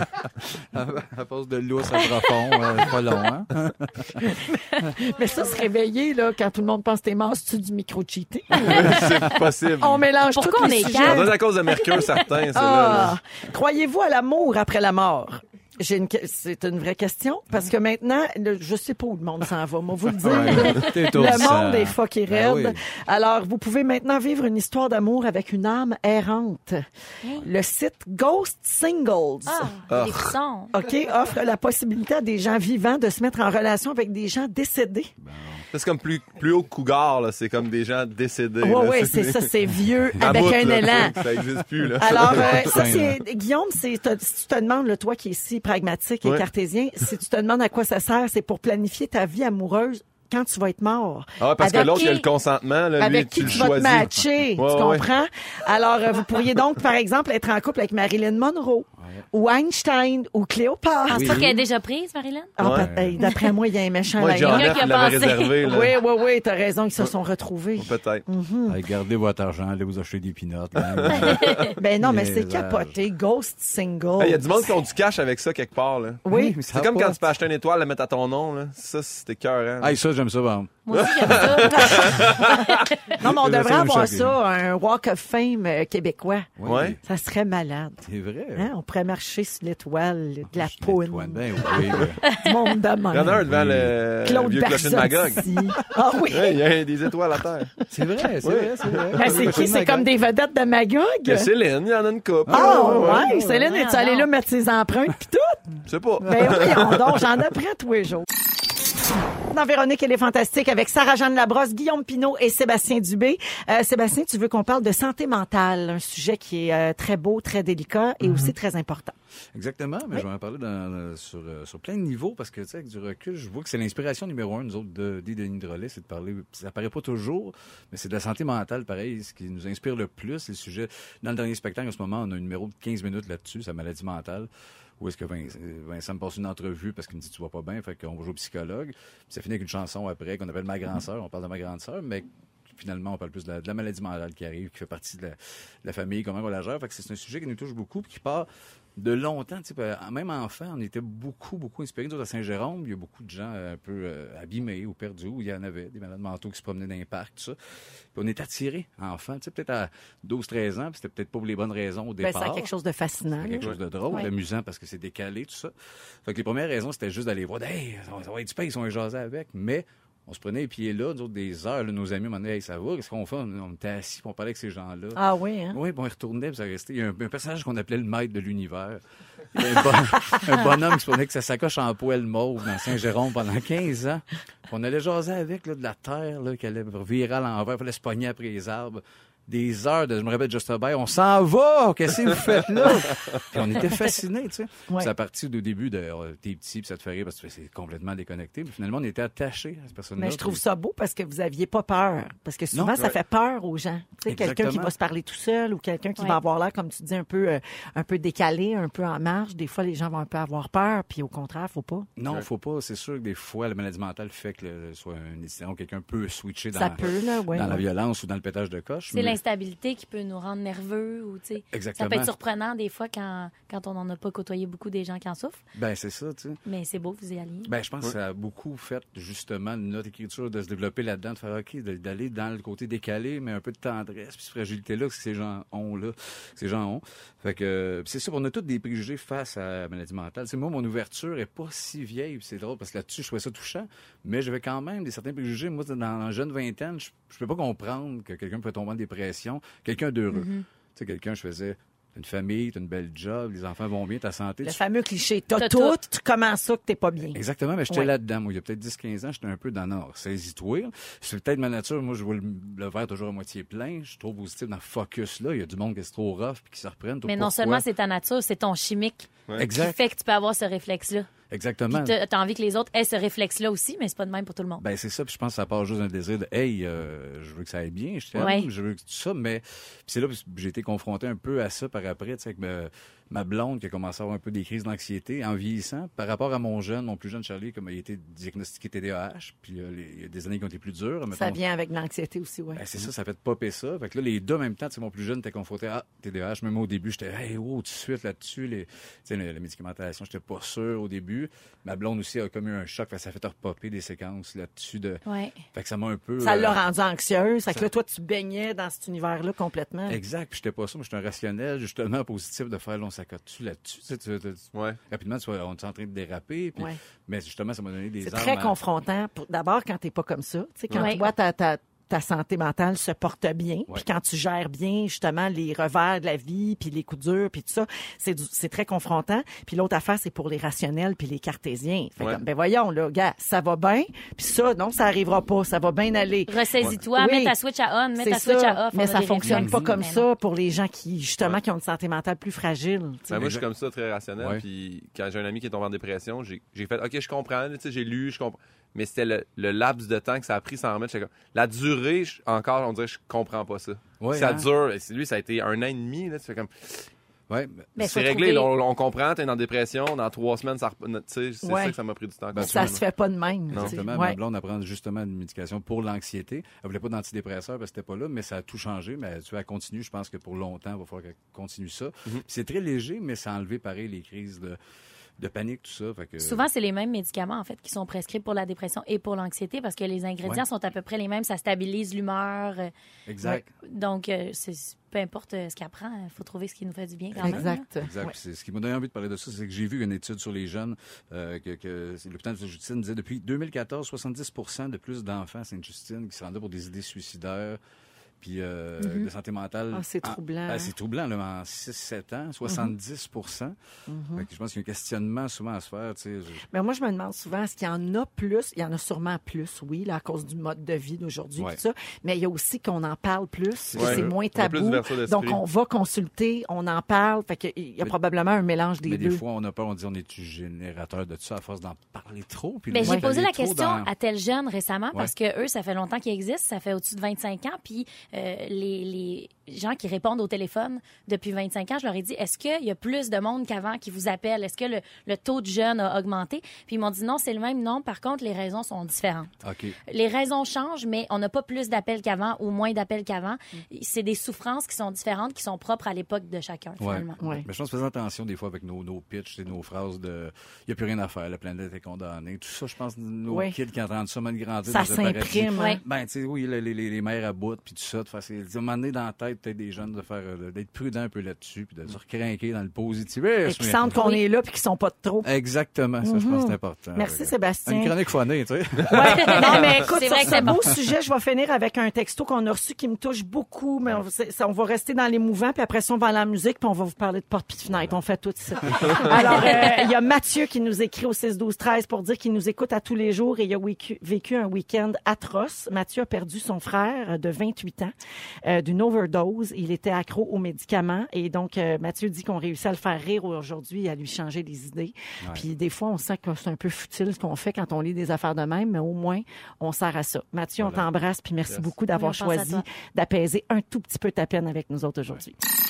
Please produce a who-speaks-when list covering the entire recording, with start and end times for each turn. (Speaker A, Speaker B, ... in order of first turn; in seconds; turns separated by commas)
Speaker A: 0.7-4.3, Speaker B: 4.2-9.2, Speaker C: 8.6-10.1, Speaker B: 9.8-12.0, Speaker D: 10.3-11.4, Speaker C: 11.0-13.2, Speaker B: 12.5-29.8, Speaker A: 20.2-22.8, Speaker D: 20.3-21.5, Speaker D: 29.5-30.7, Speaker C: 29.9-30.4, Speaker B: 30.7-35.1, Speaker A: 35.2-35.7, Speaker C: 35.7-39.5, Speaker B: 38.6-41.2, Speaker A: 40.2-41.0, Speaker C: 40.2-42.8, Speaker B: 42.0-52.2, Speaker A: 42.0-43.2, Speaker C: 51.4-55.1, Speaker D: 51.7-52.3, Speaker B: 53.0-61.6, Speaker A: 53.4-54.3, Speaker A: 61.1-61.5, Speaker D: 61.1-62.5, Speaker B: 62.6-64.9, Speaker C: 62.6-62.9, Speaker A: 62.6-63.2, Speaker D: 63.2-63.5, Speaker C: 64.2-66.0, Speaker D: 64.4-65.6, Speaker B: 65.6-68.8, Speaker C: 67.8-68.2, Speaker A: 68.7-73.0, Speaker C: 70.8-71.7, Speaker D: 71.2-71.8, Speaker B: 71.8-74.5, Speaker C: 74.2-80.0, Speaker B: 76.2-76.6, Speaker A: 76.3-77.2, Speaker A: 79.8-82.3, Speaker D: 80.9-82.1, Speaker C: 80.9-82.9, Speaker B: 81.7-82.4, Speaker B: 83.2-88.0, Speaker A: 83.2-84.4, Speaker A: 86.6-87.0, Speaker C: 86.7-87.0, Speaker A: 88.1-88.7, Speaker B: 88.6-93.4, Speaker A: 90.5-92.2, Speaker D: 92.2-92.6, Speaker C: 93.1-95.5, Speaker A: 93.2-94.0, Speaker B: 94.2-96.7, Speaker C: 96.3-97.8, Speaker A: 97.9-100.1, Speaker C: 98.4-99.7, Speaker B: 99.1-101.5, Speaker C: 101.3-103.3, Speaker A: 102.5-103.7, Speaker B: 102.5-105.6, Speaker D: 103.6-104.3, Speaker C: 105.9-107.3, Speaker B: 106.2-108.3, Speaker B: 109.5-119.2, Speaker A: 118.2-118.5, Speaker A: 119.5-148.5, Speaker A: 149.0-157.6, Speaker A: 158.1-162.7, Speaker B: 162.2-164.3, Speaker A: 163.3-165.7, Speaker A: 166.2-179.0, Speaker B: 175.2-175.8, Speaker A: 179.5-200.6, Speaker B: 200.2-212.1, Speaker A: 202.7-203.0, Speaker A: 204.3-204.9, Speaker A: 212.2-219.4, Speaker B: 216.7-217.8, Speaker D: 219.1-225.6, Speaker A: 221.7-222.4, Speaker A: 225.8-226.6, Speaker D: 226.7-227.7, Speaker A: 227.7-254.8, Speaker D: 250.3-250.6, Speaker B: 254.6-258.1, Speaker D: 255.6-256.0, Speaker A: 257.3-267.9, Speaker D: 267.2-271.3, Speaker A: 269.6-270.0, Speaker A: 271.5-272.2, Speaker D: 271.9-274.8, Speaker A: 274.8-291.6, Speaker D: 278.4-278.7, Speaker B: 291.3-292.9, Speaker A: 292.8-305.2, Speaker D: 305.3-305.6, Speaker A: 305.7-306.8, Speaker B: 306.4-310.2, Speaker A: 310.1-318.8, Speaker C: 314.7-315.0, Speaker B: 318.2-337.6, Speaker D: 321.0-321.3, Speaker D: 336.5-340.3, Speaker B: 338.2-343.3, Speaker A: 339.4-339.9, Speaker C: 343.3-357.1, Speaker A: 343.3-343.6, Speaker A: 344.4-344.6, Speaker A: 354.2-354.7, Speaker A: 357.5-357.9, Speaker D: 358.0-358.7, Speaker C: 358.0-363.0, Speaker B: 361.6-362.0, Speaker A: 362.5-363.0, Speaker B: 362.6-364.4, Speaker A: 363.7-374.8, Speaker C: 363.7-364.0, Speaker A: 375.4-376.7, Speaker D: 376.4-382.9, Speaker A: 383.3-383.7, Speaker D: 383.8-387.8, Speaker A: 387.3-397.8, Speaker B: 387.4-388.3, Speaker A: 398.4-403.8, Speaker D: 399.0-399.3, Speaker B: 399.9-400.9, Speaker B: 404.1-404.5, Speaker A: 404.4-406.6, Speaker B: 406.7-419.4, Speaker A: 413.9-414.3, Speaker C: 414.0-415.6, Speaker A: 419.0-424.1, Speaker D: 422.9-439.5, Speaker A: 439.6-440.0, Speaker D: 440.1-447.4, Speaker A: 447.0-464.1, Speaker B: 447.4-447.7, Speaker B: 453.5-453.7, Speaker B: 454.9-456.0, Speaker B: 463.7-465.5, Speaker D: 464.1-464.4, Speaker A: 465.4-469.9, Speaker B: 466.2-468.1, Speaker B: 469.1-505.6, Speaker D: 469.2-470.9, Speaker A: 470.5-470.8, Speaker D: 479.5-480.0, Speaker A: 500.8-501.1, Speaker D: 502.1-502.9